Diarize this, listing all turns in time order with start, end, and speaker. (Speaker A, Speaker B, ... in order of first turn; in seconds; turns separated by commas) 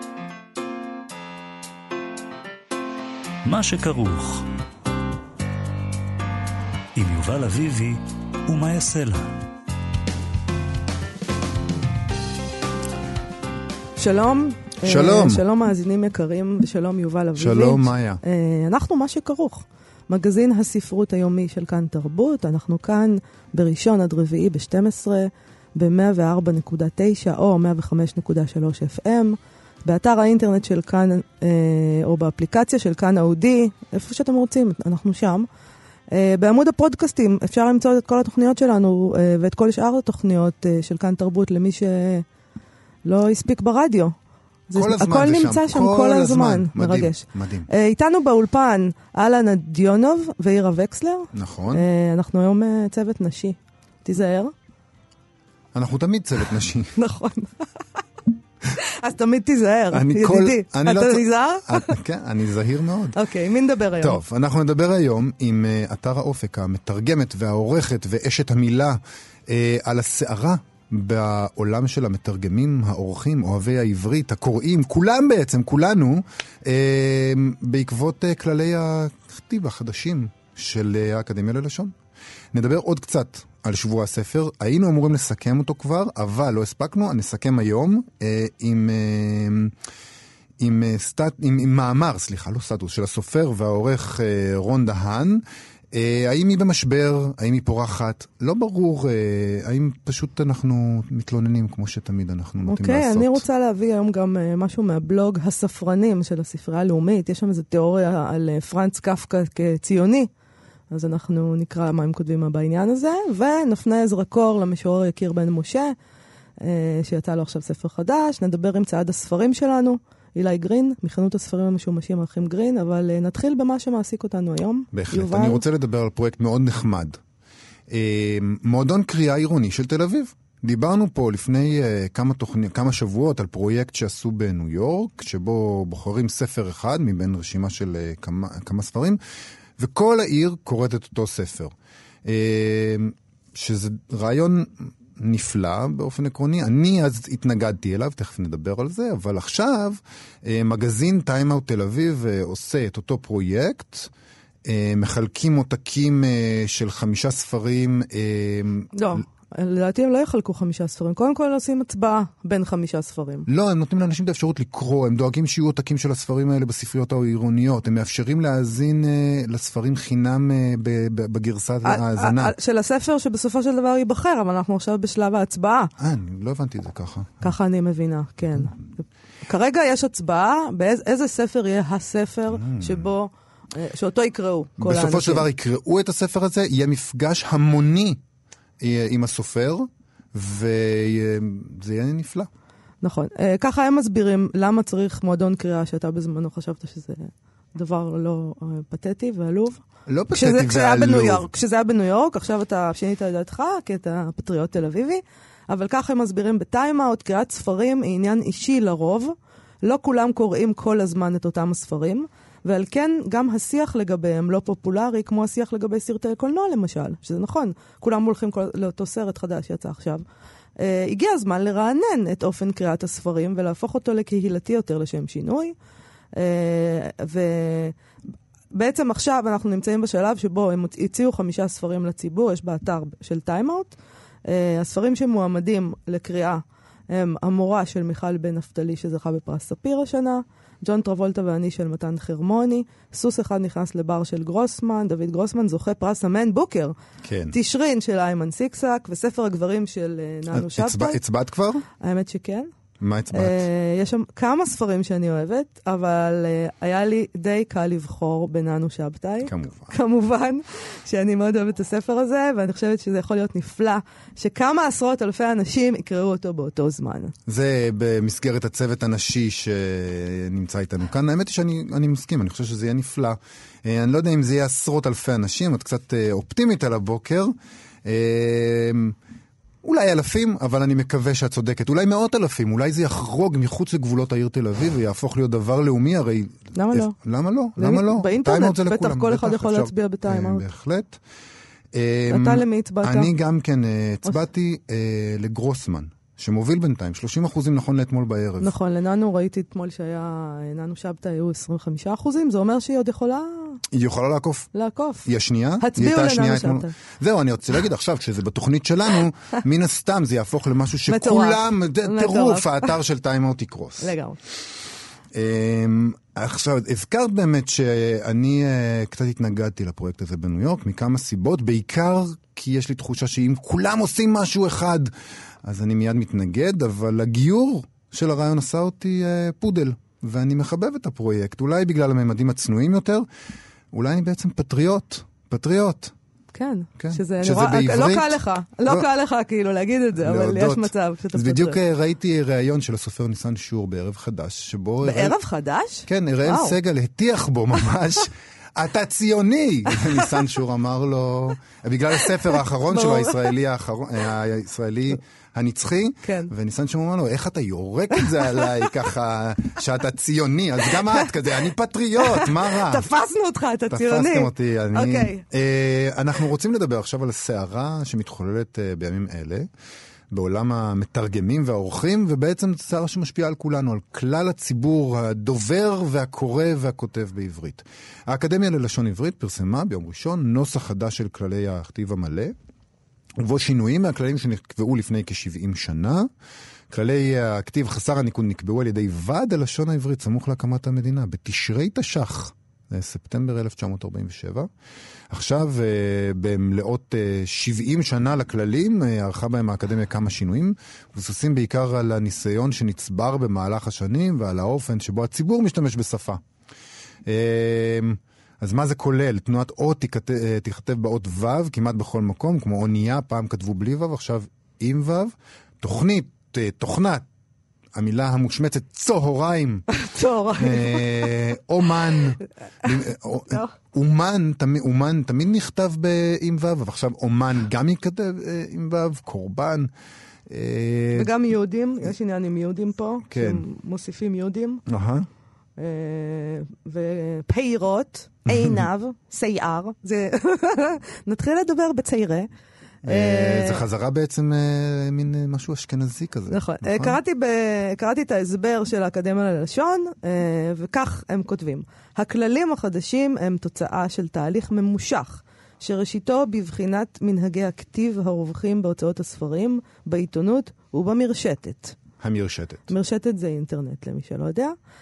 Speaker A: 3.5-4.5, Speaker A: 7.0-9.3, Speaker B: 14.0-35.5, Speaker C: 14.8-15.4, Speaker C: 17.4-18.2, Speaker B: 36.1-42.2, Speaker B: 43.0-44.1, Speaker B: 44.7-54.5, Speaker C: 44.8-47.7, Speaker C: 51.3-51.8, Speaker C: 55.7-57.0, Speaker B: 57.0-57.8, Speaker B: 58.8-62.0, Speaker C: 59.9-63.2, Speaker B: 63.1-64.2, Speaker C: 64.0-81.9, Speaker C: 82.5-89.7, Speaker C: 90.6-103.4, Speaker B: 102.6-110.3, Speaker B: 110.9-115.9, Speaker B: 116.6-125.6, Speaker C: 124.9-127.2, Speaker C: 127.9-139.2, Speaker C: 139.8-141.7, Speaker C: 142.2-154.1, Speaker C: 154.7-158.9, Speaker B: 158.9-163.4, Speaker C: 163.5-172.5, Speaker B: 171.8-175.9, Speaker C: 176.0-177.5, Speaker B: 177.4-185.4, Speaker C: 182.5-183.1, Speaker C: 184.8-188.2, Speaker C: 188.8-192.5, Speaker B: 193.0-220.2, Speaker C: 200.1-201.4, Speaker B: 220.8-225.8, Speaker B: 226.3-227.9, Speaker B: 228.7-233.9, Speaker B: 234.5-246.9, Speaker C: 247.2-247.5, Speaker B: 247.5-251.2, Speaker C: 250.5-251.8, Speaker B: 252.0-252.7, Speaker C: 253.0-253.7, Speaker B: 253.3-267.3, Speaker C: 259.4-259.9, Speaker C: 267.5-279.2, Speaker C: 279.8-291.2, Speaker B: 286.8-287.1, Speaker B: 287.8-290.6, Speaker C: 291.9-298.7, Speaker B: 292.3-293.3, Speaker B: 298.6-303.8, Speaker C: 303.9-304.7, Speaker B: 304.7-306.9, Speaker C: 305.2-314.1, Speaker B: 311.1-312.9, Speaker B: 314.0-314.4, Speaker C: 315.3-325.1, Speaker C: 325.6-333.2, Speaker C: 333.9-336.1, Speaker B: 336.5-341.8, Speaker C: 337.0-339.1, Speaker C: 340.2-345.4, Speaker B: 345.0-346.8, Speaker C: 346.1-363.1, Speaker B: 352.9-353.5, Speaker B: 356.2-356.5, Speaker B: 358.1-358.9, Speaker B: 360.9-361.5, Speaker B: 362.2-365.4, Speaker C: 363.9-369.7, Speaker C: 370.3-382.6, Speaker C: 383.4-386.3, Speaker C: 386.9-394.7, Speaker C: 395.3-406.4, Speaker C: 407.2-417.2, Speaker C: 417.9-419.9, Speaker B: 419.9-421.3, Speaker C: 420.6-429.9, Speaker C: 430.5-431.3, Speaker B: 431.1-434.8, Speaker C: 433.3-433.6, Speaker C: 434.9-435.3, Speaker B: 435.8-442.5, Speaker C: 438.5-438.9, Speaker B: 443.0-443.8, Speaker C: 443.1-447.2, Speaker B: 446.5-462.0, Speaker C: 462.2-462.9, Speaker B: 462.9-464.8